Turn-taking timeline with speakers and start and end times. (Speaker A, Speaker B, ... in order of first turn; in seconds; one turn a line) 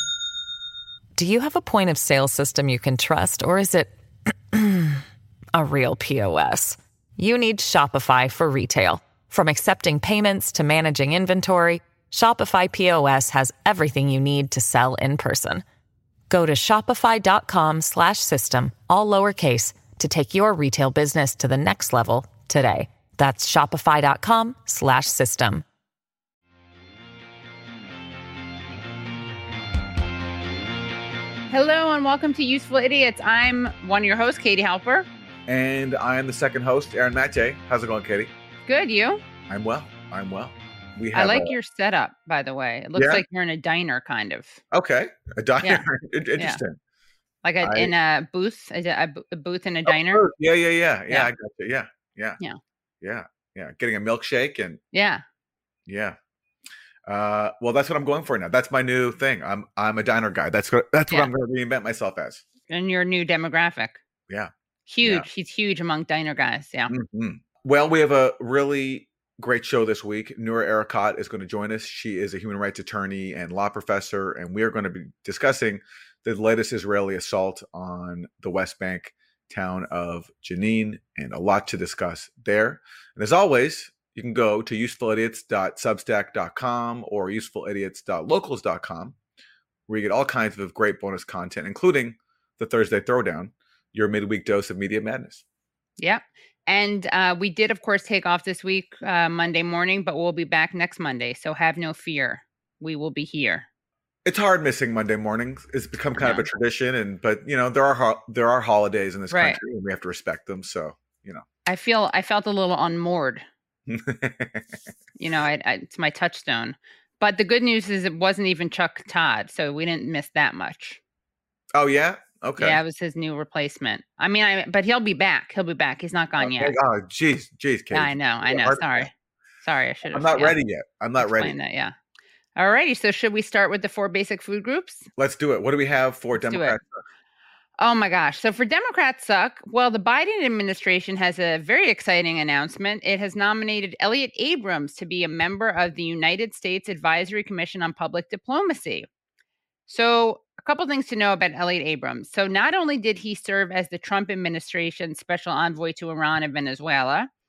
Speaker A: 1.1-3.9
Speaker A: 4.5-5.0
Speaker A: 5.5-15.6
Speaker A: 16.3-25.6
Speaker B: 31.5-35.1
Speaker C: 35.5-38.3
Speaker B: 38.6-39.2
Speaker C: 39.5-41.5
Speaker B: 41.1-44.6
Speaker C: 42.9-43.2
Speaker C: 44.7-46.8
Speaker B: 46.4-46.6
Speaker B: 47.4-50.2
Speaker C: 47.6-47.9
Speaker C: 49.9-52.4
Speaker C: 53.0-54.8
Speaker B: 54.9-55.2
Speaker C: 55.9-56.2
Speaker C: 57.0-62.4
Speaker B: 62.7-64.0
Speaker B: 64.9-66.9
Speaker C: 66.9-89.2
Speaker C: 89.9-95.4
Speaker B: 96.0-103.7
Speaker C: 104.2-111.4
Speaker B: 106.2-106.5
Speaker B: 109.3-109.6
Speaker B: 111.7-113.5
Speaker C: 113.9-114.8
Speaker B: 115.2-121.0
Speaker C: 121.7-122.8
Speaker B: 122.6-126.7
Speaker C: 126.4-129.1
Speaker B: 127.9-129.1
Speaker B: 129.6-130.6
Speaker C: 130.1-131.5
Speaker B: 131.2-131.9
Speaker B: 132.6-135.1
Speaker C: 135.2-137.0
Speaker B: 136.3-136.8
Speaker B: 137.8-149.1
Speaker B: 149.9-157.3